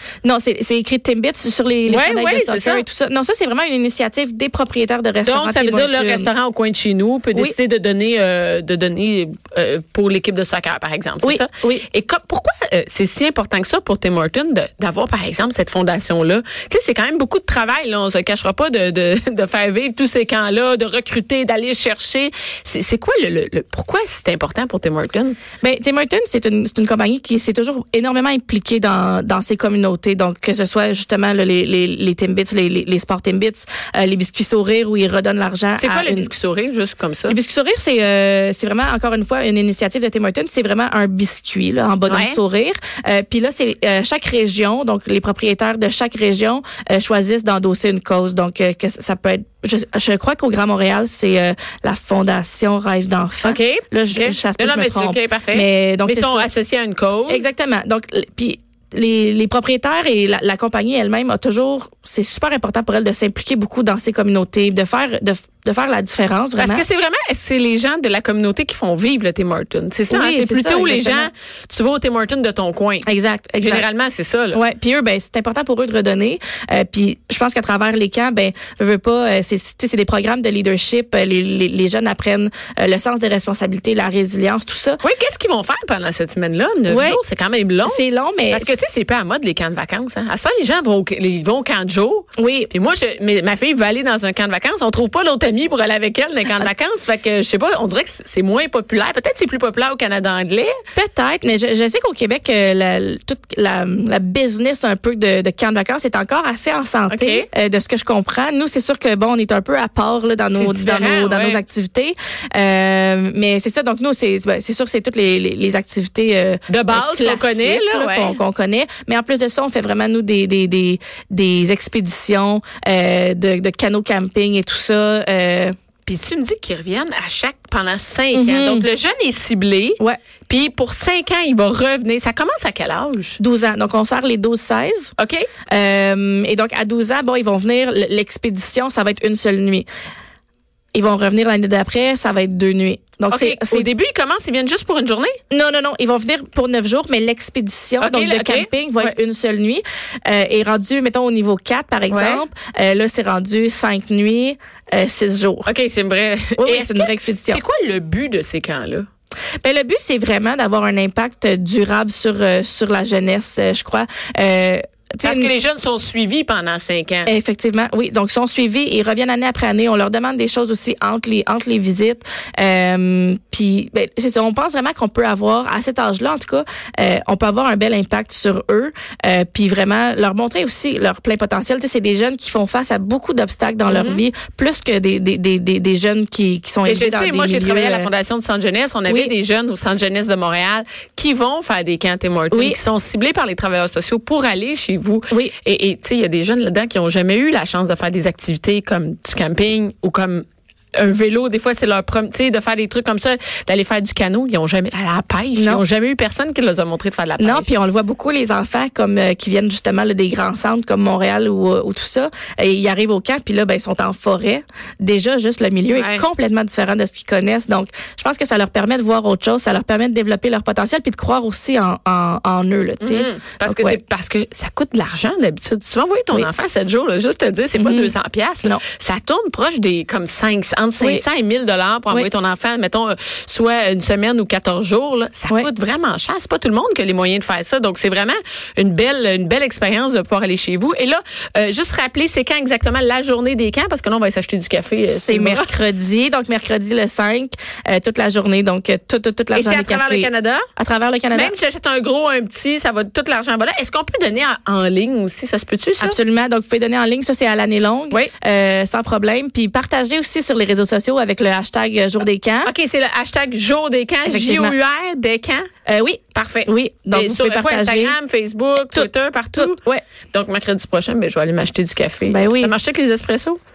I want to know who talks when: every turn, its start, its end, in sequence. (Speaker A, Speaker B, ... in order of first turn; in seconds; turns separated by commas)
Speaker A: 0.2-6.3, Speaker B: 1.9-2.8, Speaker B: 5.2-25.4, Speaker A: 11.2-11.8, Speaker A: 25.6-36.3, Speaker B: 35.8-37.4, Speaker A: 37.3-56.5, Speaker B: 42.1-42.4, Speaker B: 53.4-57.4, Speaker A: 57.3-66.8, Speaker B: 66.6-73.1, Speaker A: 70.1-71.3, Speaker A: 73.0-73.8, Speaker B: 73.6-74.6, Speaker A: 74.5-85.0, Speaker B: 85.0-100.8, Speaker A: 86.9-87.2, Speaker A: 87.8-88.7, Speaker A: 92.4-92.7, Speaker A: 100.9-125.7, Speaker B: 107.1-107.5, Speaker B: 110.5-111.6, Speaker B: 116.7-118.3, Speaker B: 126.0-133.3, Speaker A: 128.3-128.9, Speaker A: 133.4-135.1, Speaker B: 135.2-135.5, Speaker A: 135.7-139.8, Speaker A: 140.9-143.9, Speaker B: 143.3-145.4, Speaker A: 145.5-155.7, Speaker B: 148.0-149.1, Speaker B: 152.1-152.4, Speaker B: 155.7-159.1, Speaker A: 156.6-157.6, Speaker A: 159.6-165.5, Speaker B: 165.2-167.3, Speaker A: 167.2-188.1, Speaker B: 183.9-184.2, Speaker B: 186.8-207.7, Speaker A: 192.5-192.8, Speaker A: 205.5-205.8, Speaker A: 207.4-224.0, Speaker B: 215.9-216.2, Speaker B: 223.0-245.7, Speaker A: 227.8-228.8, Speaker A: 245.1-251.5, Speaker B: 249.5-250.6, Speaker B: 251.3-256.2, Speaker A: 256.0-262.7, Speaker B: 262.6-265.7, Speaker A: 264.3-264.8, Speaker A: 265.9-268.1, Speaker B: 266.3-269.8, Speaker A: 268.9-270.0, Speaker B: 270.3-273.6, Speaker A: 272.3-272.7